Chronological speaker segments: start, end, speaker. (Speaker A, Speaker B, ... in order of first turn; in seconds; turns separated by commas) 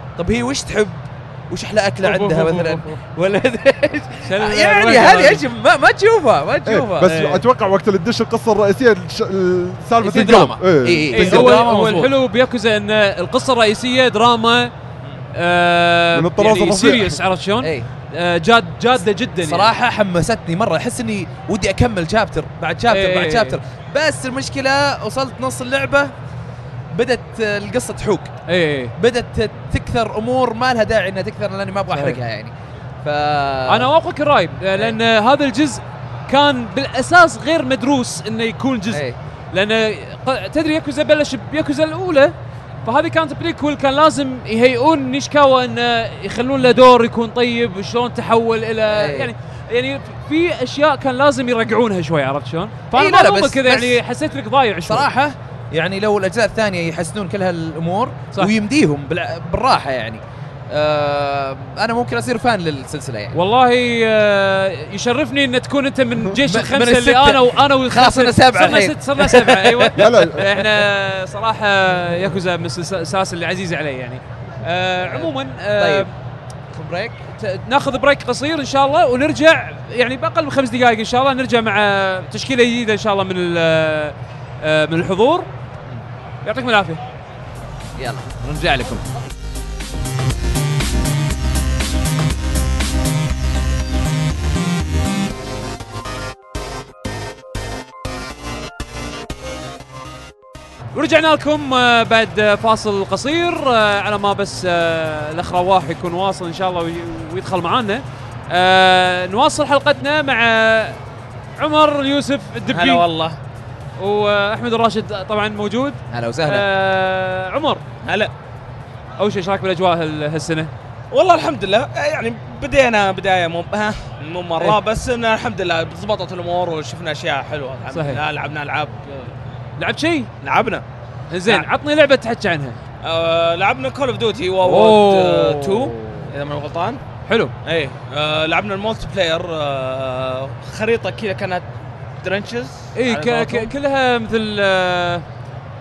Speaker A: 0.1-7.2, Speaker B: 2.0-3.0, Speaker B: 4.2-5.4, Speaker C: 6.7-11.7, Speaker B: 7.1-7.4, Speaker A: 10.0-12.1, Speaker B: 11.1-14.7, Speaker B: 15.3-19.7, Speaker C: 16.1-17.2, Speaker A: 17.6-17.9, Speaker A: 19.4-26.1, Speaker B: 22.9-23.6, Speaker A: 26.9-28.4, Speaker B: 28.5-28.9, Speaker A: 29.0-32.5, Speaker B: 31.9-32.2, Speaker A: 33.0-33.9, Speaker B: 33.7-55.1, Speaker A: 38.9-39.2, Speaker A: 48.9-49.3, Speaker A: 52.9-54.0, Speaker A: 54.9-63.3, Speaker B: 63.3-76.1, Speaker A: 66.4-70.7, Speaker C: 69.9-70.4, Speaker A: 75.0-76.1, Speaker A: 76.7-77.2, Speaker B: 77.3-85.5, Speaker B: 86.4-87.0, Speaker A: 88.0-89.0, Speaker B: 100.9-111.0, Speaker B: 111.6-113.1, Speaker D: 112.7-113.4, Speaker B: 114.0-117.8, Speaker A: 116.1-116.7, Speaker D: 118.0-118.3, Speaker B: 119.2-120.7, Speaker D: 121.1-129.3, Speaker B: 127.9-128.2, Speaker B: 129.8-130.3, Speaker D: 130.4-130.8, Speaker B: 131.3-132.8, Speaker D: 133.0-137.0, Speaker B: 134.6-136.3, Speaker B: 137.3-137.5, Speaker D: 137.6-141.7, Speaker D: 142.2-143.7, Speaker B: 142.9-145.2